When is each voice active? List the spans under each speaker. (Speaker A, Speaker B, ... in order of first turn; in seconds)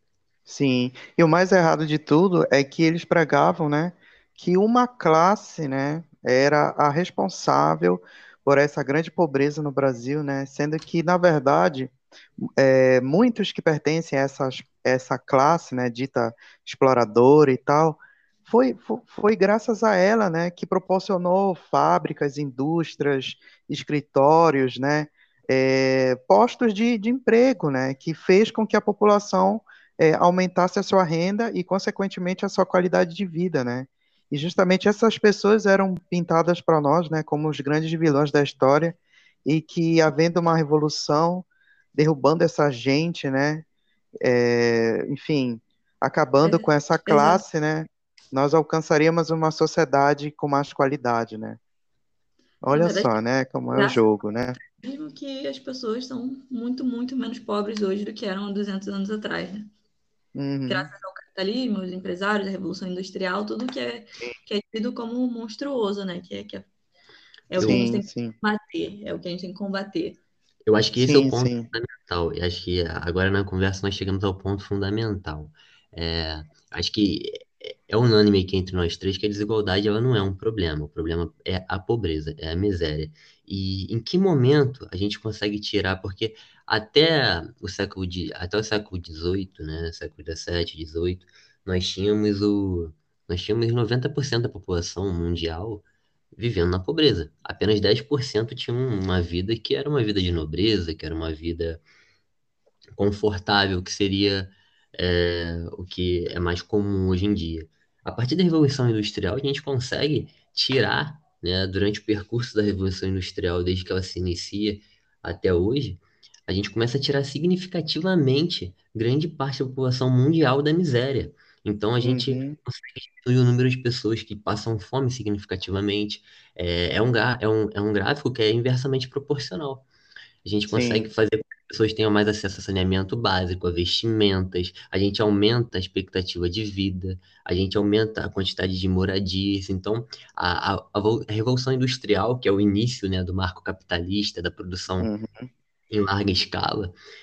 Speaker A: 0.5-11.9, 12.4-43.6, 44.2-51.6, 52.6-54.6, 60.3-60.9, 67.6-68.3, 71.0-71.7, 122.0-122.5, 130.7-131.1, 145.0-145.5
Speaker B: 46.4-47.4, 52.7-53.2, 53.7-54.0, 54.7-59.7, 60.7-66.7, 67.5-70.2
Speaker C: 70.7-101.8, 103.0-129.8, 130.4-145.1, 145.9-146.9